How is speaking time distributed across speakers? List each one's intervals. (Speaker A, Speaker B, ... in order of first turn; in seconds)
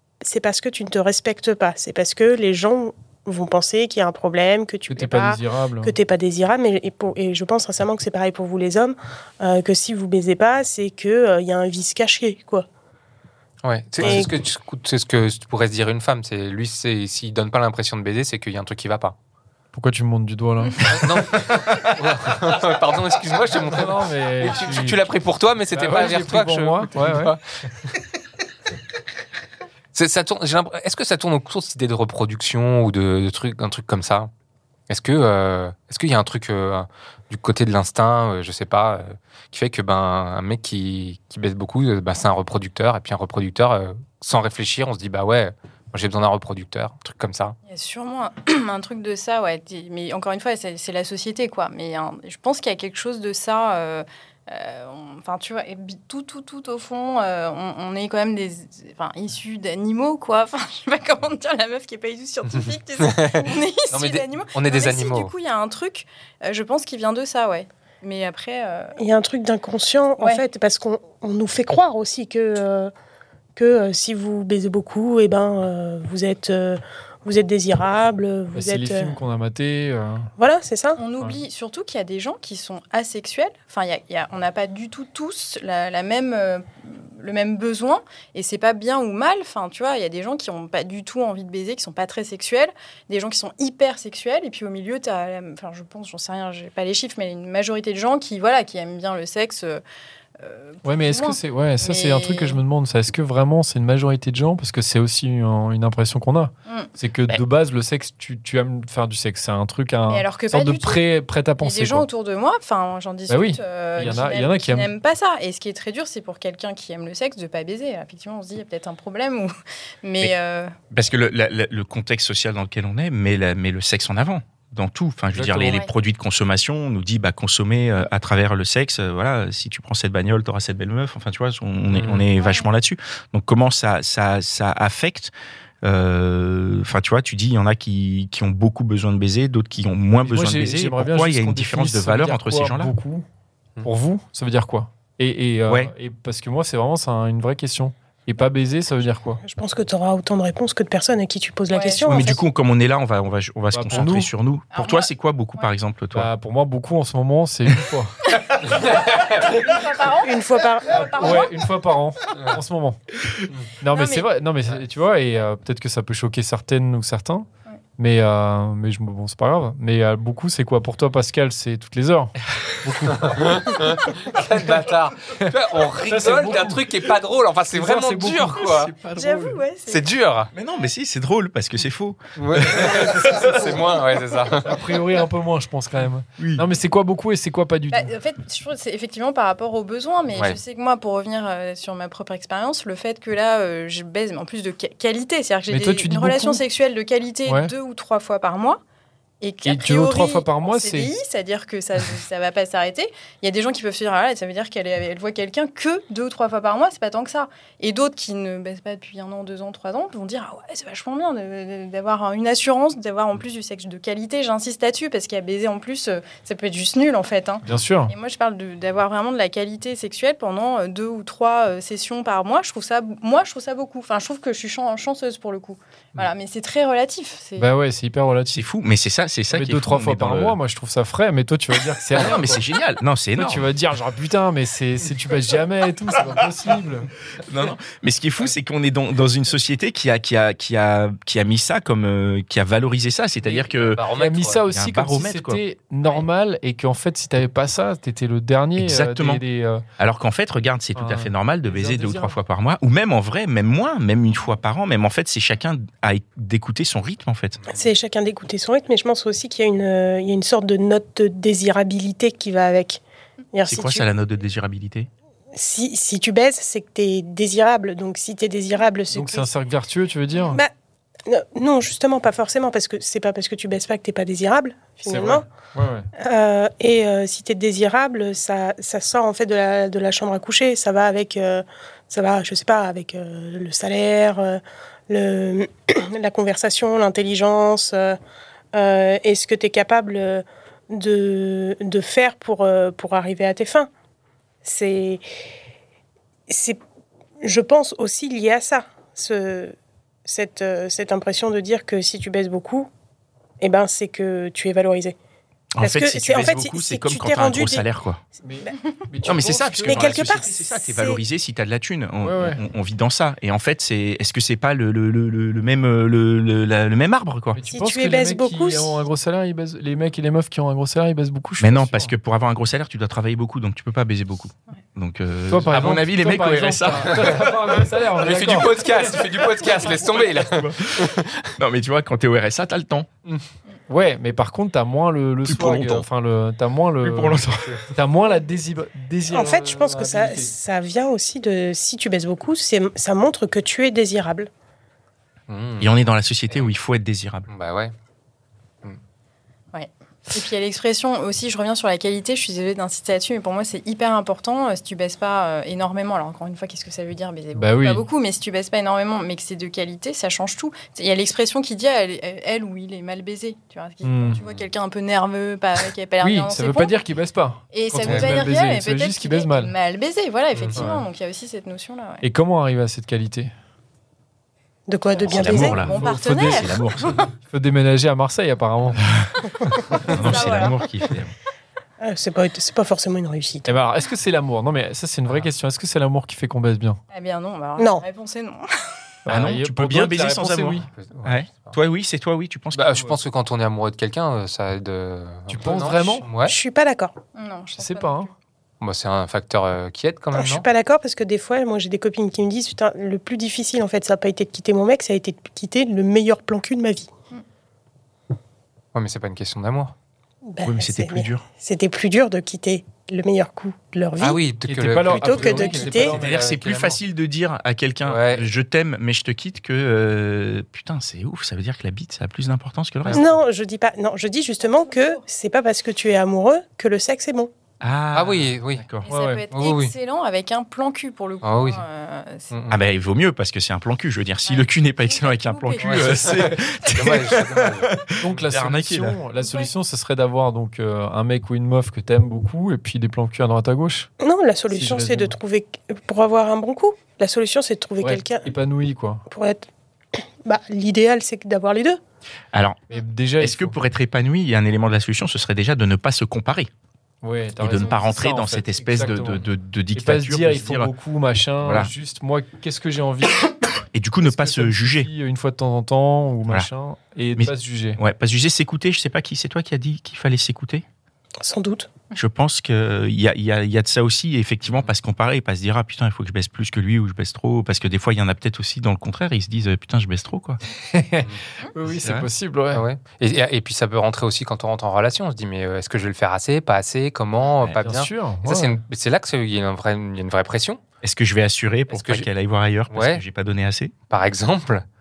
Speaker A: 0.2-12.7, 14.0-14.3, 69.0-72.9, 73.5-79.2, 80.4-81.0, 149.4-152.4, 160.2-161.0, 257.7-263.0, 263.5-264.1, 265.5-269.5, 271.3-275.4, 276.2-288.1, 288.7-293.9, 294.6-295.2, 296.5-296.8, 297.4-299.7, 300.2-302.9, 303.6-305.1, 305.8-307.8, 309.8-311.2, 317.6-319.0, 339.3-344.5, 374.9-375.8, 382.0-383.7, 387.8-388.1, 396.4-397.1, 400.3-407.1, 410.4-414.4, 415.1-416.1, 423.1-427.5, 444.2-448.5, 449.3-449.6, 450.4-452.0, 471.4-471.9
Speaker B: 4.9-5.9, 19.7-20.8, 23.7-25.0, 25.7-27.3, 78.5-80.3, 100.8-112.1, 113.3-114.9, 125.3-125.8, 140.2-143.2, 143.8-149.4, 153.7-154.3, 156.1-158.2, 160.9-163.0, 163.8-173.4, 176.1-176.9, 177.7-178.7, 184.6-188.1, 195.7-196.6, 197.4-197.7, 199.6-201.1, 217.6-218.1, 227.6-228.6, 229.5-232.6, 233.3-237.1, 244.2-249.8, 250.9-252.4, 269.1-270.6, 275.0-276.1, 308.4-310.2, 312.2-312.6, 317.5-322.1, 325.5-329.2, 333.3-340.5, 357.5-358.0, 364.0-364.4, 366.2-369.7, 370.7-371.0, 372.2-373.5, 375.8-376.6, 377.4-379.0, 383.6-387.0, 389.2-390.9, 395.5-396.3, 397.8-398.3, 414.7-416.4, 429.1-429.4, 438.2-444.1, 444.7-445.3, 448.0-449.2, 452.9-453.8, 457.2-463.6, 464.2-468.0, 480.9-482.9, 487.8-488.8
Speaker C: 13.6-19.1, 20.9-27.4, 29.9-34.3, 34.9-47.5, 62.5-65.3, 131.9-132.2, 158.6-159.6, 173.1-178.9, 179.9-180.5, 182.3-184.8, 243.4-244.6, 257.6-257.9, 325.7-326.0, 326.9-331.4, 337.5-337.8, 345.5-346.7, 347.5-347.9, 364.2-364.7, 368.0-368.4, 370.5-370.8, 390.9-391.8, 392.7-396.5, 398.8-400.6, 408.9-409.9, 414.2-417.0, 418.0-418.5, 423.0-423.4, 428.1-428.9, 429.5-429.9, 431.4-431.8, 432.5-432.8, 435.8-437.9, 482.7-490.8, 491.9-492.3, 492.9-493.2, 494.1-494.8
Speaker D: 47.7-69.0, 70.2-70.5, 81.0-99.8, 100.4-102.6, 110.1-119.5, 120.0-120.7, 125.6-125.9, 132.4-132.7, 151.7-152.1, 154.7-155.7, 158.4-161.6, 163.9-164.3, 179.1-180.1, 187.9-198.8, 199.4-227.7, 349.7-367.0, 367.7-372.2, 375.1-377.3, 380.0-380.8, 387.1-388.6, 397.3-398.3, 424.6-425.2, 429.0-432.5, 434.4-436.9, 439.3-439.7
Speaker E: 120.9-135.3, 135.8-142.9, 145.7-145.9, 152.1-156.3, 178.6-179.6, 180.5-183.8, 186.4-186.7, 228.5-230.6, 232.1-233.7, 237.5-244.0, 244.7-245.6, 248.8-249.4, 250.0-257.6, 263.7-265.1, 305.8-308.2, 309.2-317.6, 321.6-327.5, 330.2-333.1, 335.5-336.1, 337.0-337.7, 345.8-347.5, 375.2-377.1, 380.1-381.3, 389.3-392.9, 410.6-411.4, 416.0-423.2, 427.8-429.1, 432.7-439.2, 452.5-452.8, 453.4-456.7, 457.6-460.9, 461.6-461.9, 463.9-465.1, 467.3-470.8, 472.1-480.6, 481.8-482.3, 491.0-493.9